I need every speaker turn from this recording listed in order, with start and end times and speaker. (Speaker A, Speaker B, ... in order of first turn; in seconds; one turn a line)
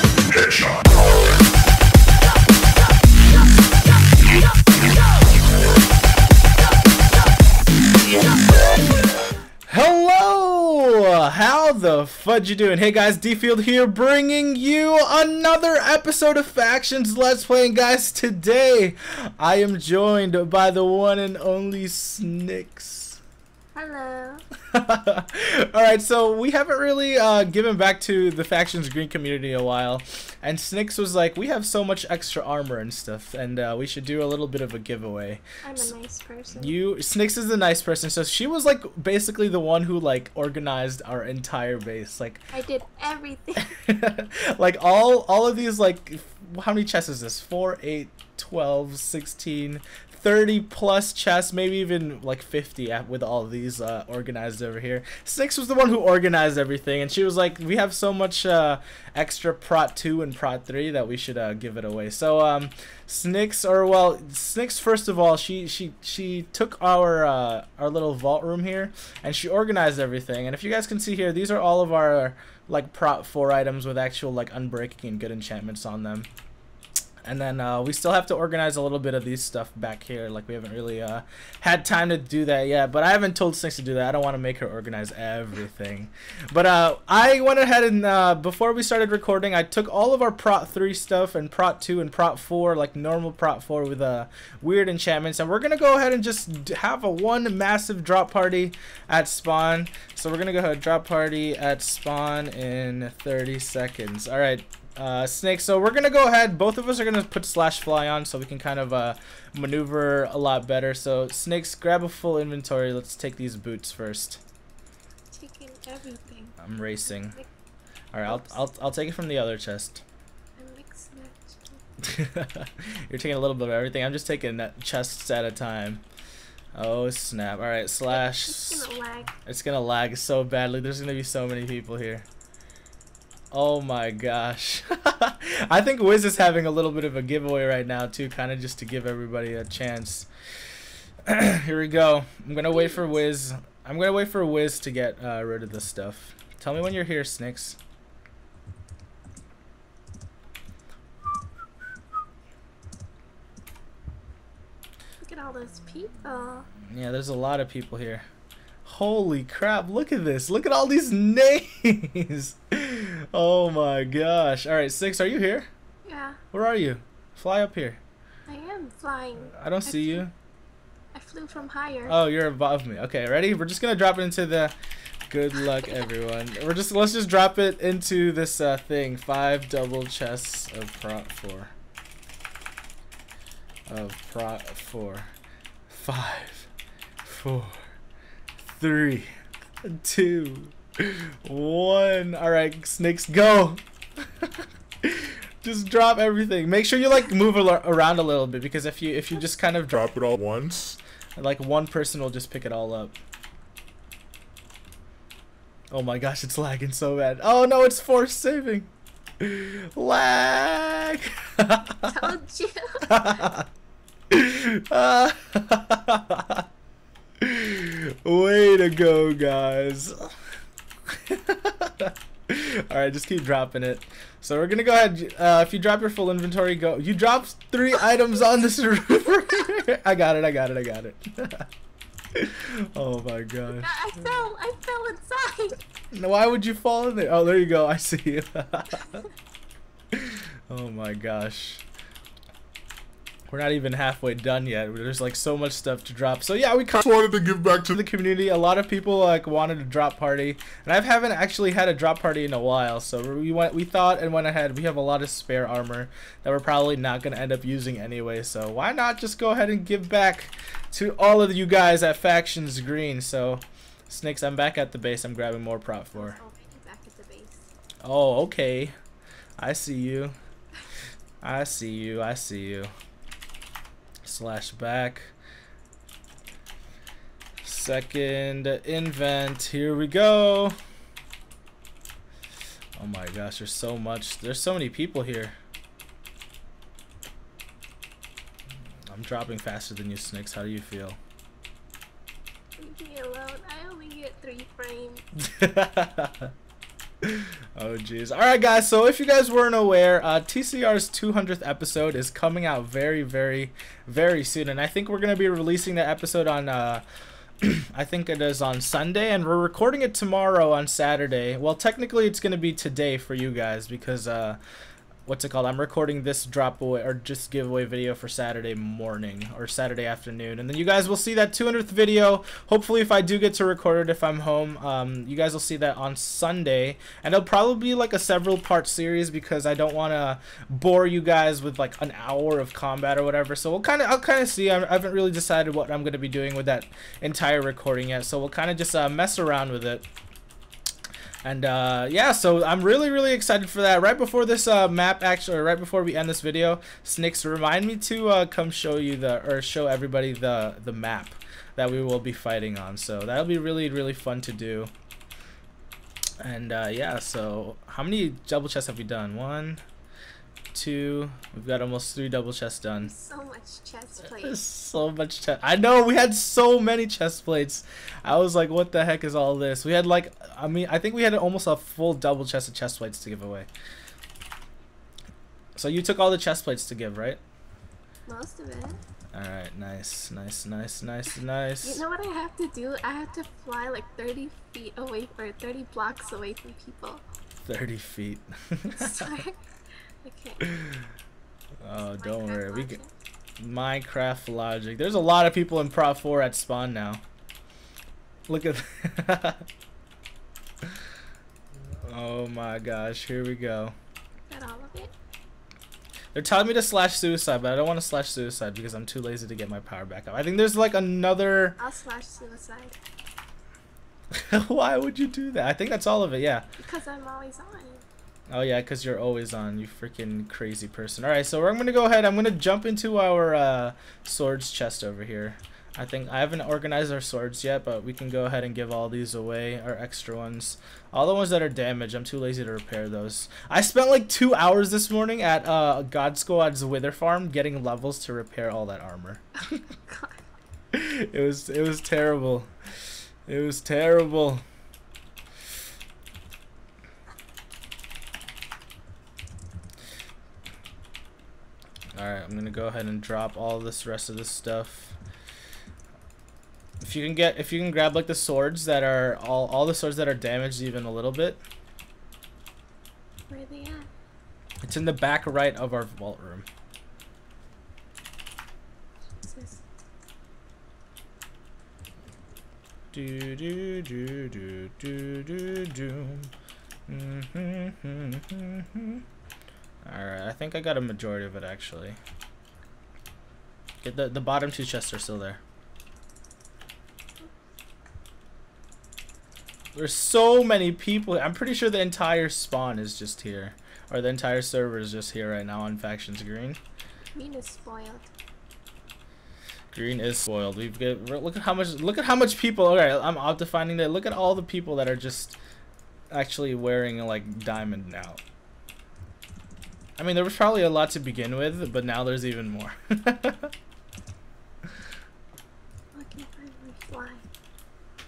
Speaker A: 0.3-0.8
Speaker B: 9.7-23.2
Speaker C: 23.8-24.4
Speaker B: 24.7-35.9
Speaker C: 35.6-36.8
Speaker B: 36.5-42.4
Speaker C: 42.5-43.8
Speaker B: 43.6-76.3
Speaker B: 77.2-114.4
Speaker C: 115.3-116.6
Speaker B: 116.6-117.4
Speaker C: 117.1-117.5
Speaker B: 118.1-120.0
Speaker C: 118.3-118.5
Speaker C: 120.6-121.8
Speaker B: 122.0-126.0
Speaker B: 126.8-128.9
Speaker C: 128.1-129.4
Speaker B: 129.4-132.3
Speaker B: 133.5-140.3
Speaker B: 141.2-147.8
Speaker C: 142.7-143.2
Speaker C: 155.2-156.7
Speaker B: 156.8-158.2
Speaker B: 158.8-165.7
Speaker C: 166.1-166.4
Speaker B: 166.5-168.0
Speaker C: 168.5-170.2
Speaker B: 169.4-170.3
Speaker C: 171.1-172.2
Speaker B: 172.1-174.8
Speaker B: 175.3-181.7
Speaker B: 183.9-185.3
Speaker B: 185.9-186.7
Speaker B: 187.2-187.9
Speaker B: 188.8-189.3
Speaker B: 189.8-193.8
Speaker B: 194.4-200.1
Speaker A: 199.9-201.0
Speaker B: 201.4-203.2
Speaker B: 205.9-212.2
Speaker C: 212.0-213.3
Speaker B: 213.1-213.7
Speaker B: 214.3-216.6
Speaker B: 217.4-220.3
Speaker B: 221.1-231.7
Speaker B: 232.3-233.9
Speaker C: 233.7-235.8
Speaker B: 236.1-239.3
Speaker B: 240.1-241.8
Speaker B: 243.5-247.0
Speaker A: 246.9-248.0
Speaker B: 247.8-266.4
Speaker C: 266.1-267.7
Speaker B: 268.0-268.9
Speaker B: 269.6-270.4
Speaker B: 271.4-272.9
Speaker B: 274.2-275.3
Speaker B: 277.6-280.8
Speaker B: 283.0-285.6
Speaker B: 289.1-291.2
Speaker C: 292.8-295.2
Speaker B: 295.4-296.5
Speaker B: 297.2-307.0
Speaker B: 307.6-314.6
Speaker B: 315.3-340.1
Speaker B: 341.4-354.9
Speaker B: 356.4-359.8
Speaker B: 360.7-363.1
Speaker C: 363.0-364.6
Speaker B: 364.3-373.7
Speaker B: 375.8-377.4
Speaker C: 378.3-379.0
Speaker B: 379.4-382.0
Speaker C: 381.8-387.2
Speaker B: 387.6-389.4
Speaker C: 389.0-389.6
Speaker C: 390.2-390.7
Speaker B: 390.6-391.1
Speaker B: 391.8-393.0
Speaker C: 391.9-393.1
Speaker B: 393.6-397.2
Speaker B: 398.5-399.6
Speaker B: 402.0-403.9
Speaker C: 404.5-405.1
Speaker B: 406.3-411.8
Speaker C: 411.8-413.0
Speaker B: 414.3-416.7
Speaker C: 416.8-418.1
Speaker B: 418.5-439.4
Speaker C: 440.1-440.4
Speaker B: 440.9-442.7
Speaker B: 443.5-444.6
Speaker B: 452.1-455.2
Speaker B: 457.0-461.6
Speaker C: 463.5-464.1
Speaker B: 464.8-466.7
Speaker C: 469.4-469.8
Speaker B: 473.1-476.5
Speaker B: 477.1-479.2
Speaker B: 480.1-482.2
Speaker B: 484.0-485.6
Speaker B: 489.9-496.8
Speaker C: 497.3-498.3
Speaker B: 499.9-505.6
Speaker B: 506.3-508.4
Speaker B: 510.2-513.7
Speaker C: 516.1-517.5